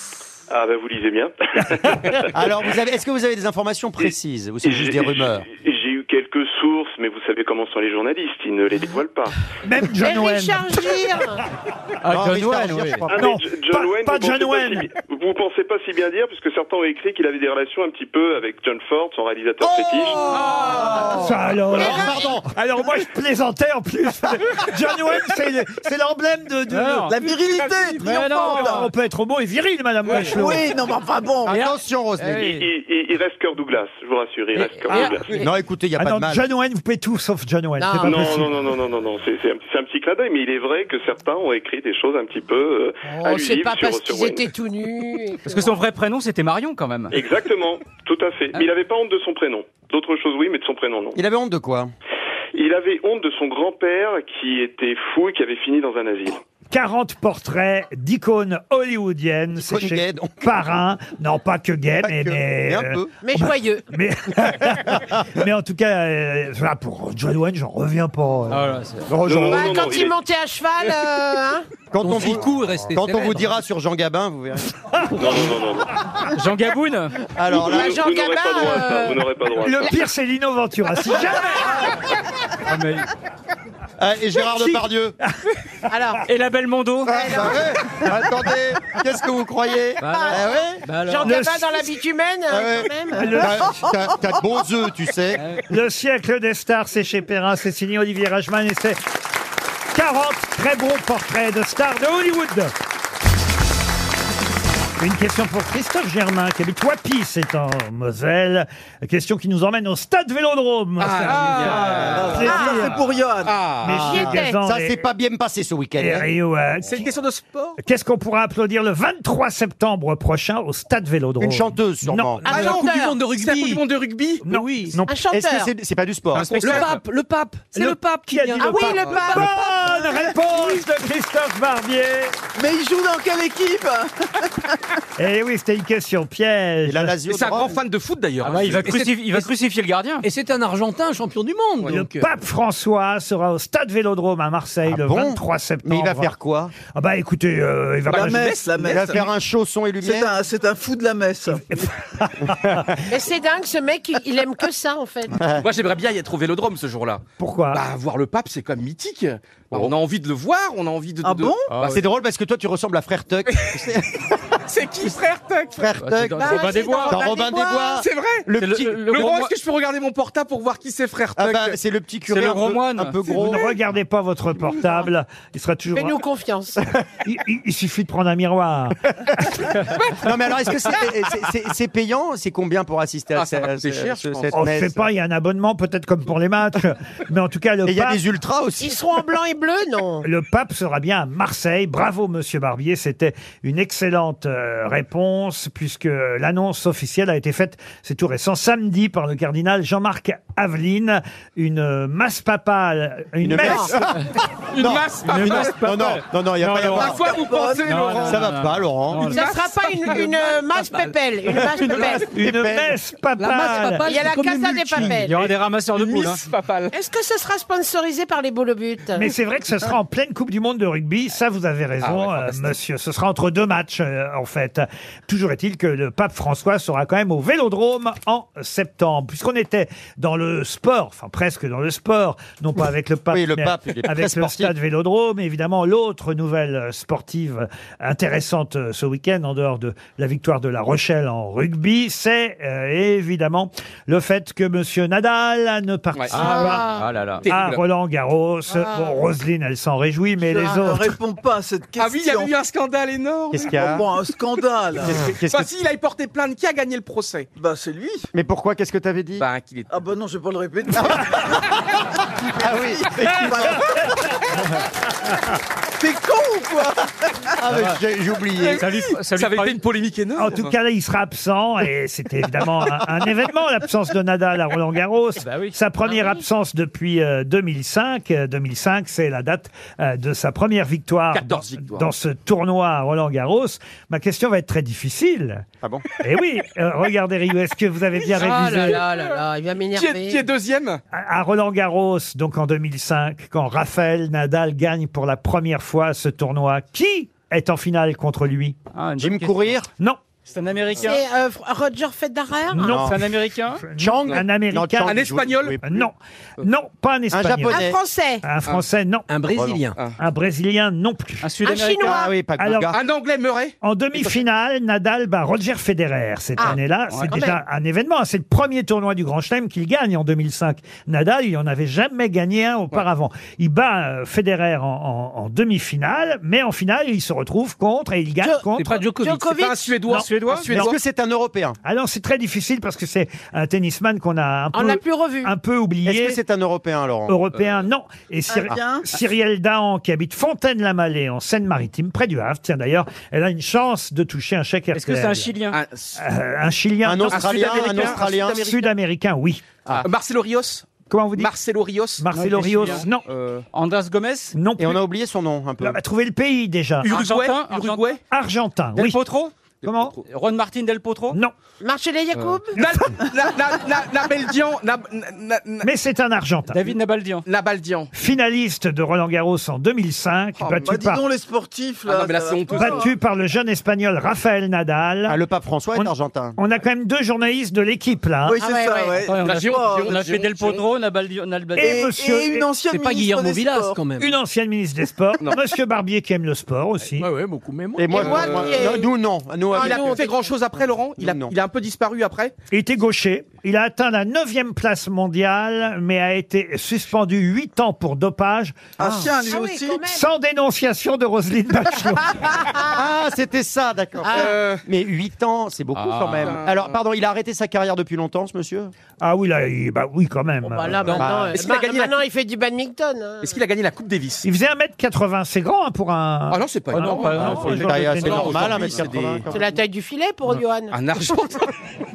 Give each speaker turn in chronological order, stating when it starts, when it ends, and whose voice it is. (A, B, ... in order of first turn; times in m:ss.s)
0:00.5-0:02.3 A
0:02.3-0:05.5 B
0:04.6-0:09.4 A
0:09.6-0:10.9 C
0:10.0-0:11.4 D
0:12.0-0:13.0 E
0:12.1-0:13.1 B
0:13.1-0:20.2 A
0:13.1-0:14.9 C
0:20.1-0:22.5 B
0:20.3-0:21.2 E
0:20.7-0:21.1 F
0:21.2-0:27.1 C
0:21.8-0:22.2 D
0:26.7-0:27.2 E
0:27.1-0:28.9 F
0:28.0-0:28.9 E
0:28.4-0:30.7 C
0:30.1-0:30.4 E
0:30.2-0:31.6 F
0:31.5-0:32.6 B
0:31.5-0:32.7 E
0:32.4-0:35.3 A
0:34.6-0:35.4 E
0:35.3-0:36.4 B
0:36.0-0:38.5 C
0:37.8-0:38.5 D
0:38.0-0:44.5 A
0:43.1-0:45.8 D
0:45.4-0:47.2 E
0:47.1-0:51.2 A
0:51.2-0:51.9 B
0:52.6-0:56.4 A
0:56.7-1:08.8 C
0:59.5-1:00.5 B
1:02.0-1:03.1 B
1:03.2-1:03.8 D
1:04.6-1:05.2 B
1:08.5-1:09.1 E
1:09.1-1:09.8 B
1:09.2-1:10.2 A
1:09.4-1:11.7 D
1:11.9-1:14.7 B
1:12.0-1:13.5 G
1:15.2-1:15.9 A
1:16.4-1:17.2 E
1:17.4-1:18.0 B
1:17.5-1:19.9 D
1:17.5-1:20.0 A
1:19.6-1:21.8 C
1:22.7-1:23.1 E
1:24.0-1:25.2 B
1:25.9-1:26.2 D
1:26.3-1:27.4 E
1:27.0-1:30.8 B
1:27.1-1:27.7 D
1:30.0-1:31.4 E
1:30.1-1:33.4 D
1:31.2-1:31.8 C
1:32.5-1:35.4 B
1:33.2-1:33.8 C
1:33.3-1:34.0 F
1:35.7-1:39.0 C
1:39.9-1:42.7 C
1:45.0-1:53.0 C
1:51.0-1:52.6 H
1:51.4-1:52.4 E
1:51.6-1:53.6 F
1:52.4-1:52.9 D
1:53.4-1:54.1 H
1:53.8-1:55.0 C
1:53.9-1:56.3 B
1:54.0-1:54.6 D
1:56.0-1:57.1 C
1:56.8-1:57.8 H
1:57.8-2:02.7 C
2:01.4-2:02.5 B
2:02.5-2:04.4 H
2:02.5-2:03.8 G
2:02.5-2:03.2 D
2:04.4-2:05.2 C
2:05.1-2:05.7 D
2:05.3-2:06.6 B
2:06.4-2:07.0 E
2:06.5-2:08.9 G
2:06.6-2:06.9 H
2:07.8-2:12.4 C
2:08.6-2:10.8 D
2:12.6-2:14.8 F
2:15.2-2:17.2 C
2:16.8-2:17.8 B
2:17.3-2:18.9 H
2:18.4-2:20.3 E
2:18.8-2:19.5 G
2:20.2-2:22.3 G
2:21.9-2:26.3 C
2:24.9-2:26.7 B
2:26.9-2:28.5 C
2:28.1-2:29.2 H
2:28.1-2:29.2 F
2:28.8-2:30.3 B
2:30.0-2:31.6 F
2:31.7-2:32.8 C
2:32.5-2:32.9 B
2:33.1-2:35.4 D
2:35.3-2:35.6 B
2:35.6-2:42.0 H
2:37.4-2:37.8 C
2:41.2-2:41.7 F
2:41.8-2:44.2 B
2:44.7-2:45.8 H
2:45.8-2:49.1 B
2:46.0-2:47.3 E
2:46.4-2:47.9 D
2:47.8-2:48.5 H
2:48.6-2:49.5 E
2:49.0-2:51.8 H
2:51.4-2:53.7 B
2:52.3-2:53.4 E
2:53.3-2:56.2 C
2:54.8-2:55.1 D
2:55.9-2:56.8 D
2:57.2-2:59.0 C
3:00.2-3:05.1 B
3:03.4-3:04.7 H
3:04.5-3:08.2 C
3:07.9-3:09.0 B
3:08.8-3:10.3 D
3:10.2-3:23.9 C
3:23.4-3:24.2 B
3:23.6-3:23.9 D
3:24.8-3:25.9 H
3:24.8-3:27.2 B
3:25.0-3:27.2 E
3:26.8-3:28.5 H
3:27.0-3:28.1 F
3:27.8-3:29.5 E
3:28.2-3:29.4 B
3:29.2-3:30.6 H
3:29.3-3:32.3 D
3:31.9-3:32.1 E
3:32.2-3:33.0 B
3:32.3-3:34.1 C
3:33.4-3:36.4 E
3:33.4-3:34.7 G
3:34.0-3:35.5 D
3:36.0-3:36.9 H
3:36.9-3:39.3 D
3:39.2-4:06.9 C
3:42.0-3:42.8 H
3:53.3-3:54.7 B
4:06.1-4:06.4 H
4:06.3-4:07.5 E
4:06.4-4:07.1 D
4:07.4-4:07.8 H
4:07.5-4:11.1 C
4:08.7-4:09.2 D
4:10.4-4:12.5 F
4:12.0-4:13.8 H
4:13.5-4:14.1 B
4:13.7-4:15.2 F
4:15.0-4:15.7 B
4:15.1-4:17.5 H
4:17.6-4:18.3 F
4:18.3-4:19.4 B
4:19.4-4:19.9 H
4:19.9-4:21.6 F
4:21.0-4:21.4 B
4:22.6-4:23.8 B
4:22.7-4:23.8 F
4:26.0-4:27.1 F
4:27.6-4:28.9 B
4:28.8-4:29.8 E
4:29.3-4:30.7 H
4:30.4-4:45.7 C
4:35.4-4:35.8 E
4:41.3-4:42.1 H
4:46.2-4:49.0 C
4:48.3-4:49.2 H
4:48.4-4:50.4 D
4:49.9-4:51.0 H
4:51.1-4:58.8 C
4:59.0-4:59.8 E
4:59.2-4:59.9 B
5:00.5-5:01.2 E
5:01.0-5:03.1 D
5:02.7-5:05.3 C
5:02.8-5:03.2 B
5:03.0-5:03.8 E
5:04.0-5:06.1 B
5:05.0-5:05.8 H
5:05.8-5:07.9 C
5:07.3-5:08.0 B
5:07.7-5:08.4 D
5:08.4-5:09.3 C
5:09.3-5:10.0 G
5:09.5-5:09.8 B
5:10.2-5:11.4 C
5:11.4-5:12.3 E
5:11.6-5:12.3 D
5:12.0-5:13.0 B
5:12.6-5:12.9 C
5:12.9-5:14.3 H
5:13.8-5:29.0 C
5:16.6-5:17.6 D
5:28.8-5:29.4 G
5:29.2-5:29.9 D
5:29.5-5:30.9 H
5:30.1-5:31.0 C
5:30.1-5:30.7 E
5:30.7-5:31.8 B
5:31.8-5:36.4 C
5:34.7-5:35.5 D
5:36.0-5:37.4 B
5:37.3-5:45.5 C
5:38.5-5:39.1 F
5:44.9-5:45.8 E
5:45.7-5:46.2 H
5:46.2-5:49.8 C
5:47.0-5:48.7 B
5:47.3-5:48.9 H
5:47.5-5:48.1 E
5:49.9-5:52.3 H
5:51.1-5:51.5 C
5:52.2-5:53.2 C
5:52.3-5:53.1 E
5:52.8-5:53.6 H
5:53.7-5:54.6 E
5:54.6-5:55.0 C
5:54.8-5:56.0 B
5:55.8-5:57.1 C
5:57.0-5:58.2 H
5:57.1-5:58.1 E
5:58.3-5:59.2 C
5:59.0-5:59.5 E
5:59.8-6:00.2 C
6:00.2-6:01.4 E
6:01.8-6:02.8 D
6:02.7-6:05.9 H
6:05.8-6:06.9 C
6:06.7-6:07.4 E
6:07.5-6:08.1 H
6:08.1-6:11.2 C
6:10.6-6:10.9 H
6:10.8-6:13.1 F
6:12.1-6:13.1 H
6:12.7-6:15.4 C
6:15.3-6:16.6 B
6:16.0-6:18.6 C
6:18.5-6:20.3 F
6:18.6-6:19.2 D
6:19.2-6:22.0 E
6:19.4-6:20.8 H
6:21.8-6:22.7 C
6:21.8-6:24.0 F
6:22.9-6:24.4 G
6:24.2-6:27.3 C
6:27.2-6:29.0 H
6:28.0-6:30.2 B
6:28.1-6:29.1 D
6:29.7-6:30.5 D
6:29.7-6:32.5 H
6:31.2-6:31.5 B
6:32.7-6:39.2 C
6:39.0-6:40.0 F
6:39.4-6:40.2 D
6:40.1-6:42.6 C
6:42.3-6:43.0 D
6:42.9-6:48.9 B
6:44.2-6:44.6 D
6:44.3-6:44.8 H
6:46.0-6:46.5 E
6:46.3-6:46.9 H
6:49.2-6:51.3 C
6:50.6-6:53.6 D
6:51.2-6:51.5 B
6:51.5-6:52.2 H
6:53.4-6:54.4 H
6:54.4-6:59.0 C
6:56.5-6:59.4 H
6:56.9-6:58.9 E
6:57.6-6:59.6 B
6:59.5-7:01.4 D
7:00.9-7:01.6 H